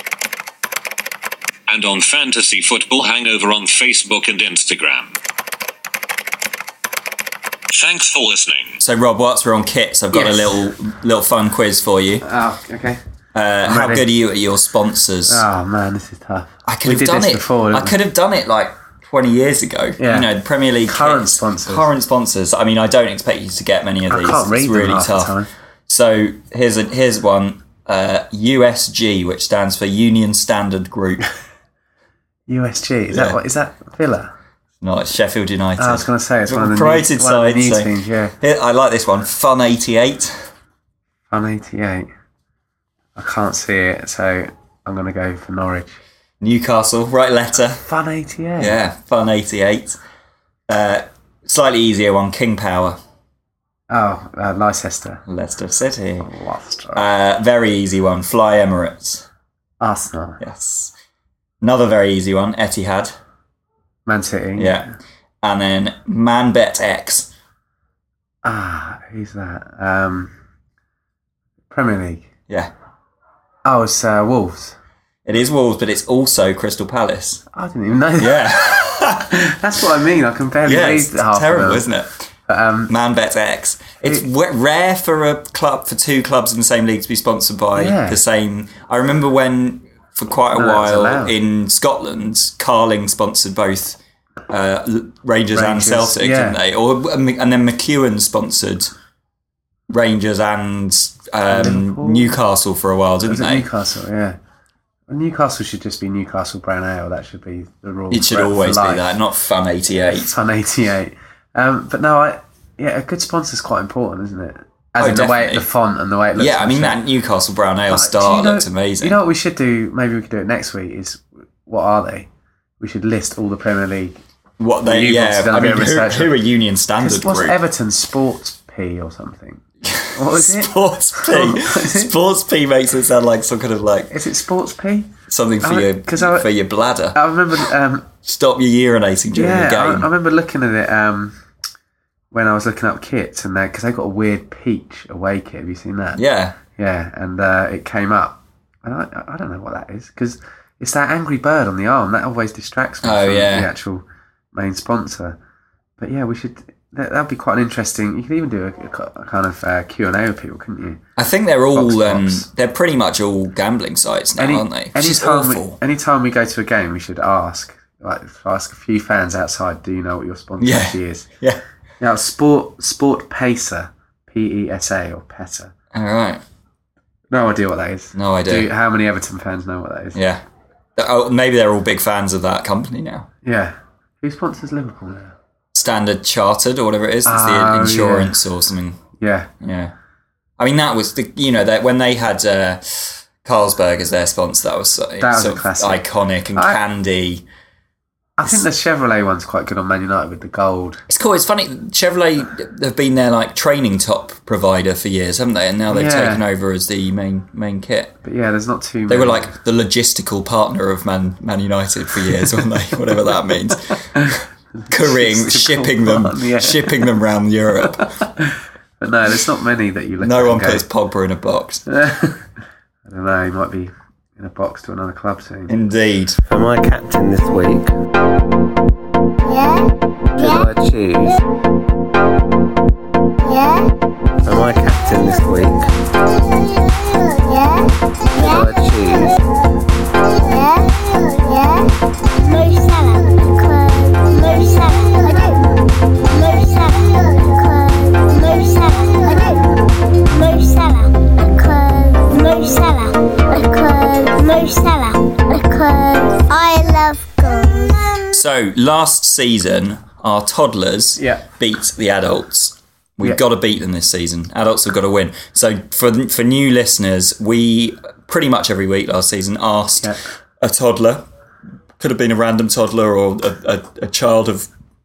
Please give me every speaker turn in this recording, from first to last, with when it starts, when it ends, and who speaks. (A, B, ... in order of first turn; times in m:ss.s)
0:01.7-0:05.1 A
0:07.7-0:08.8 A
0:08.8-0:12.2 B
0:10.1-0:10.5 C
0:12.2-0:13.0 C
0:13.3-0:15.4 B
0:13.6-0:14.0 C
0:15.3-0:18.0 C
0:16.6-0:25.4 B
0:20.0-0:20.3 C
0:20.8-0:21.9 C
0:24.1-0:25.5 C
0:25.9-0:31.3 B
0:32.5-0:34.3 C
0:33.1-0:33.4 B
0:34.8-0:40.5 B
0:35.8-0:38.3 C
0:41.3-0:42.1 C
0:43.2-0:46.0 C
0:46.4-0:47.8 B
0:47.7-0:48.8 C
0:48.6-0:50.0 B
0:50.7-0:53.0 B
0:53.9-0:55.2 C
0:55.3-0:56.3 B
0:56.2-0:57.0 C
0:56.9-0:59.2 B
0:59.8-1:00.4 C
1:00.4-1:00.9 B
1:01.6-1:03.1 B
1:04.0-1:04.8 C
1:04.6-1:04.9 B
1:05.4-1:07.3 B
1:08.4-1:10.3 C
1:11.7-1:12.3 C
1:13.6-1:14.8 C
1:15.2-1:17.4 B
1:17.5-1:18.6 C
1:18.2-1:19.4 B
1:19.3-1:21.8 C
1:20.6-1:22.1 B
1:22.5-1:22.9 C
1:22.9-1:38.9 B
1:27.8-1:28.2 C
1:30.5-1:31.3 C
1:35.5-1:36.6 C
1:39.9-1:43.7 B
1:41.5-1:42.4 C
1:43.2-1:44.4 C
1:45.1-1:49.1 C
1:48.1-1:50.3 B
1:50.1-1:57.0 C
1:55.0-1:55.6 B
1:56.4-1:59.2 B
1:57.9-2:02.3 C
2:02.8-2:04.2 C
2:04.6-2:07.6 B
2:04.8-2:06.3 C
2:07.0-2:12.1 C
2:09.8-2:14.1 B
2:14.1-2:16.5 C
2:15.3-2:17.6 B
2:17.1-2:18.1 C
2:18.2-2:20.1 B
2:19.3-2:21.4 C
2:22.3-2:26.2 C
2:26.1-2:26.6 B
2:26.8-2:35.4 C
2:33.0-2:33.7 B
2:36.0-2:41.0 C
2:41.2-2:45.8 B
2:41.7-2:42.4 C
2:44.4-2:51.3 C
2:50.6-2:51.6 B
2:52.0-2:55.7 C
2:55.9-2:56.4 B
2:57.3-3:00.2 C
2:58.1-2:58.7 B
3:00.1-3:00.4 B
3:01.0-3:03.3 B
3:03.4-3:05.3 C
3:05.7-3:09.0 B
3:07.2-3:08.4 C
3:09.2-3:09.5 C
3:09.6-3:09.9 B
3:10.6-3:17.4 B
3:15.2-3:16.0 C
3:16.5-3:16.8 C
3:18.4-3:21.0 C
3:21.1-3:28.2 B
3:25.9-3:26.4 C
3:28.2-3:29.5 C
3:29.1-3:34.2 B
3:34.1-3:37.1 C
3:34.9-3:38.2 B
3:38.0-3:40.8 C
3:40.2-3:41.8 B
3:41.9-3:42.4 C
3:43.0-3:45.7 C
3:45.7-3:46.4 B
3:46.5-3:47.9 D
3:49.4-3:50.7 E
3:50.4-3:51.4 D
3:53.4-3:53.9 E
3:54.4-3:55.8 D
3:57.1-3:58.7 E
3:58.4-3:59.3 D
4:00.3-4:18.3 E
4:18.3-4:31.2 B
4:21.2-4:21.4 C
4:32.0-4:34.7 B